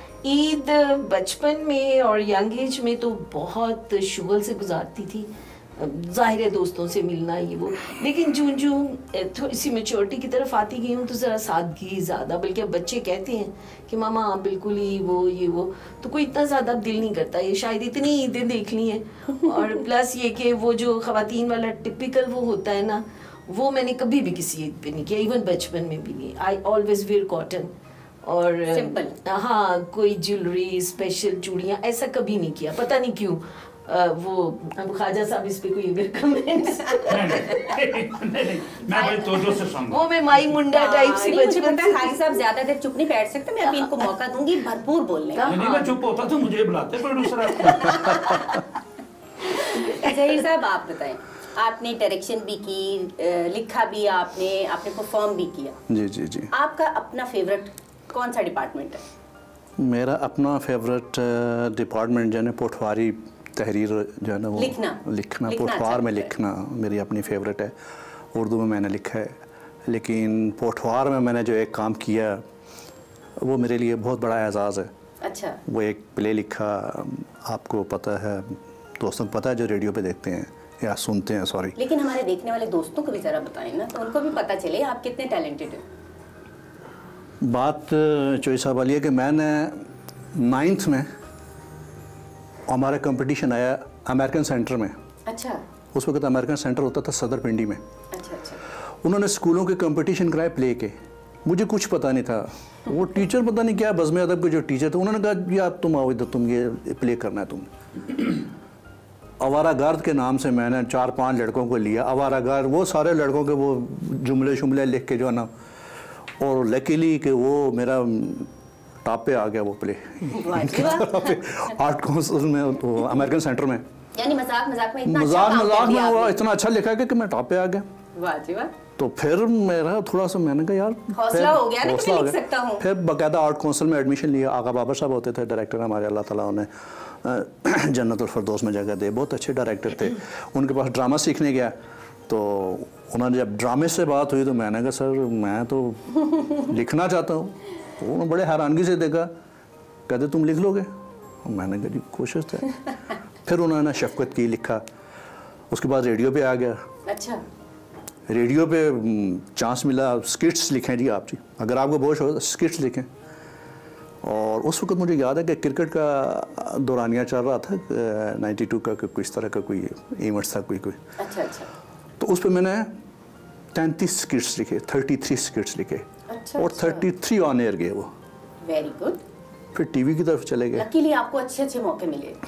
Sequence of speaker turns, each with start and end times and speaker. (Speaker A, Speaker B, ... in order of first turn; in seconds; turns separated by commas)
Speaker A: 0.2-27.7, Speaker A: 28.2-37.7, Speaker B: 28.7-29.1, Speaker C: 37.1-40.0, Speaker A: 39.9-42.4, Speaker B: 40.7-45.5, Speaker A: 45.4-46.0, Speaker C: 45.5-48.2, Speaker B: 47.6-48.6, Speaker B: 49.5-55.8, Speaker A: 49.6-50.1, Speaker D: 55.9-56.5, Speaker B: 56.5-59.0, Speaker D: 59.8-67.8, Speaker B: 64.6-66.3, Speaker D: 68.3-72.4, Speaker D: 73.4-74.9, Speaker B: 75.2-75.6, Speaker D: 75.7-81.8, Speaker B: 81.8-85.8, Speaker D: 87.4-91.1, Speaker D: 92.7-95.0, Speaker B: 95.3-95.6, Speaker D: 95.9-97.8, Speaker B: 98.1-98.6, Speaker D: 99.0-107.7, Speaker D: 109.4-115.5, Speaker D: 116.4-118.5, Speaker D: 119.0-123.8, Speaker B: 120.3-121.4, Speaker B: 124.2-126.4, Speaker D: 125.0-127.8, Speaker B: 128.2-128.7, Speaker D: 129.0-141.8, Speaker B: 131.1-132.8, Speaker D: 142.3-149.3, Speaker D: 150.1-150.9, Speaker D: 151.4-152.8, Speaker D: 153.4-154.8, Speaker D: 155.7-156.8, Speaker B: 157.1-157.4, Speaker D: 158.3-163.1, Speaker D: 164.2-171.0, Speaker B: 171.2-171.7, Speaker D: 172.2-172.9, Speaker D: 173.7-176.1, Speaker B: 176.3-177.1, Speaker D: 176.6-178.1, Speaker B: 178.6-179.2, Speaker D: 179.7-180.9, Speaker B: 180.8-182.4